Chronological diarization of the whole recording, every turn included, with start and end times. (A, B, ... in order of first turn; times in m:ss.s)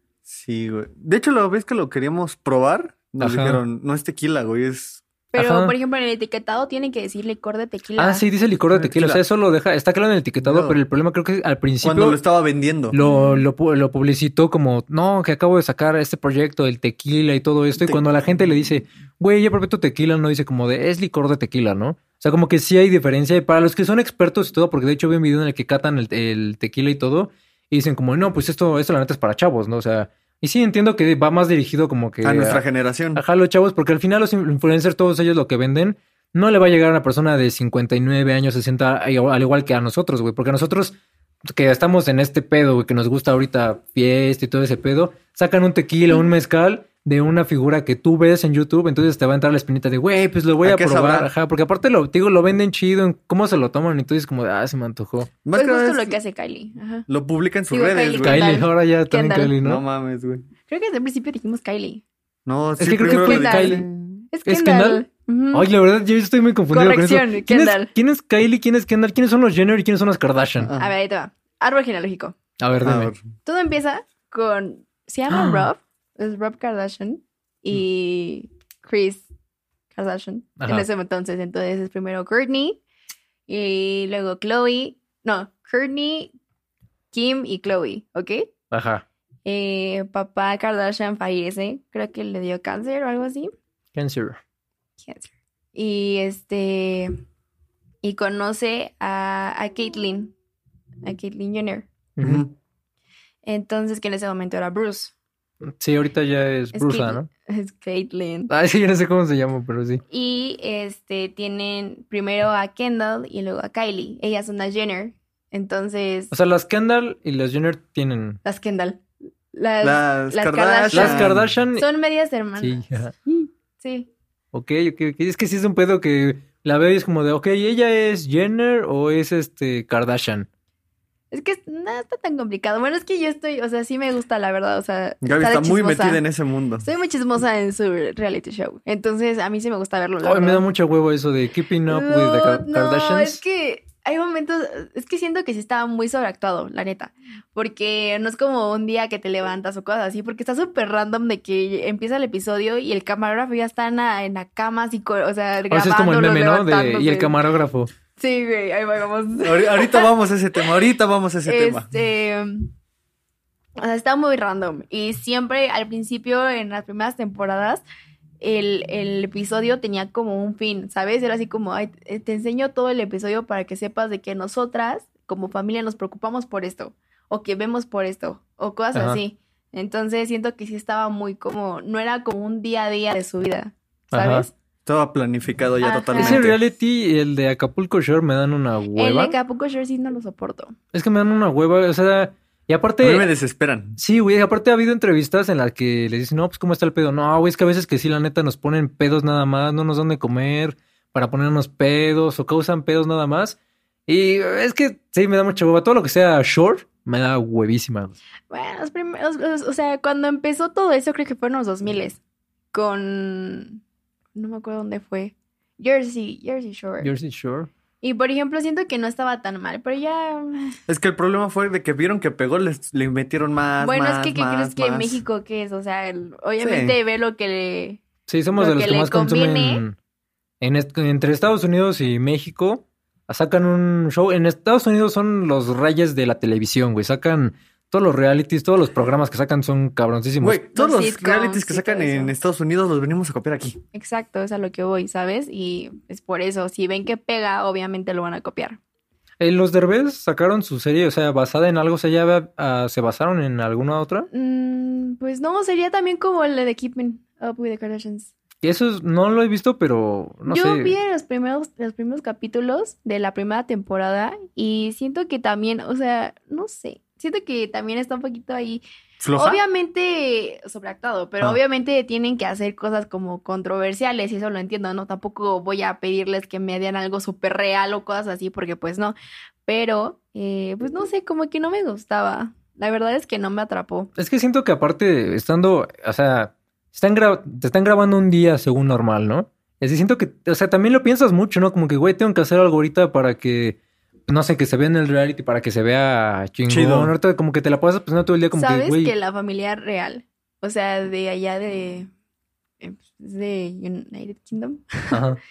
0:00.3-0:05.0 A
0:03.2-0:03.6 B
0:05.3-0:08.2 C
0:05.4-0:05.7 B
0:08.0-0:12.2 B
0:08.7-0:09.2 A
0:10.4-0:10.8 A
0:11.8-0:13.0 A
0:12.9-0:32.6 B
0:13.0-0:13.4 C
0:32.2-0:33.2 A
0:33.1-0:40.9 B
0:41.5-0:55.3 B
0:50.6-0:51.3 A
0:55.4-0:56.2 A
0:55.5-0:57.1 C
0:57.1-0:58.6 A
0:57.7-0:59.5 C
0:58.2-0:59.8 B
0:59.6-1:00.4 A
1:00.7-1:02.0 C
1:02.4-1:03.9 A
1:02.8-1:03.8 B
1:03.0-1:05.7 C
1:04.4-1:10.7 B
1:06.7-1:07.9 C
1:10.6-1:10.9 A
1:10.8-1:12.4 C
1:12.6-1:13.1 B
1:12.8-1:13.2 A
1:13.4-1:19.3 C
1:15.3-1:15.7 B
1:19.9-1:22.8 C
1:20.6-1:20.9 B
1:23.5-1:26.3 C
1:27.1-1:28.5 C
1:28.7-1:29.0 B
1:29.4-1:33.5 C
1:33.9-1:34.4 B
1:35.0-1:37.1 C
1:38.0-1:40.3 C
1:41.0-1:41.9 C
1:42.2-1:42.4 B
1:42.2-1:42.5 A
1:43.4-1:45.1 C
1:45.8-1:47.3 B
1:46.7-1:48.5 C
1:48.5-1:50.0 B
1:50.1-1:56.3 C
1:56.3-1:58.4 B
1:58.4-2:04.1 C
1:59.8-2:01.5 A
2:00.9-2:01.8 B
2:02.6-2:03.1 B
2:04.5-2:10.5 B
2:11.3-2:16.2 C
2:15.2-2:16.9 A
2:16.8-2:20.6 C
2:20.2-2:23.4 B
2:21.9-2:37.4 C
2:35.7-2:37.9 B
2:38.2-2:40.1 C
2:39.4-2:41.9 A
2:41.4-2:42.7 C
2:43.8-2:47.8 C
2:48.4-3:04.5 C
2:58.9-2:59.2 B
3:04.1-3:04.5 B
3:04.9-3:06.6 A
3:05.8-3:06.4 C
3:06.1-3:09.4 B
3:09.0-3:10.8 C
3:10.9-3:13.3 B
3:13.0-3:14.0 A
3:14.0-3:28.2 B
3:28.5-3:32.2 C
3:32.7-3:33.8 C
3:34.4-3:37.1 C
3:37.0-3:37.7 B
3:38.0-3:40.8 C
3:40.9-3:45.2 A
3:43.8-3:48.0 C
3:46.6-3:47.0 A
3:48.3-3:50.0 B
3:48.6-3:49.8 C
3:50.6-4:00.6 B
4:00.4-4:03.8 A
4:00.7-4:02.4 C
4:03.9-4:08.8 C
4:09.4-4:14.3 B
4:14.3-4:18.3 C
4:18.6-4:20.9 B
4:20.5-4:28.8 C
4:29.2-4:29.6 A
4:29.4-4:39.1 C
4:39.6-4:44.1 C
4:44.2-4:59.1 B
4:56.7-4:57.1 A
4:58.6-5:02.1 C
5:02.8-5:05.2 C
5:05.1-5:05.4 B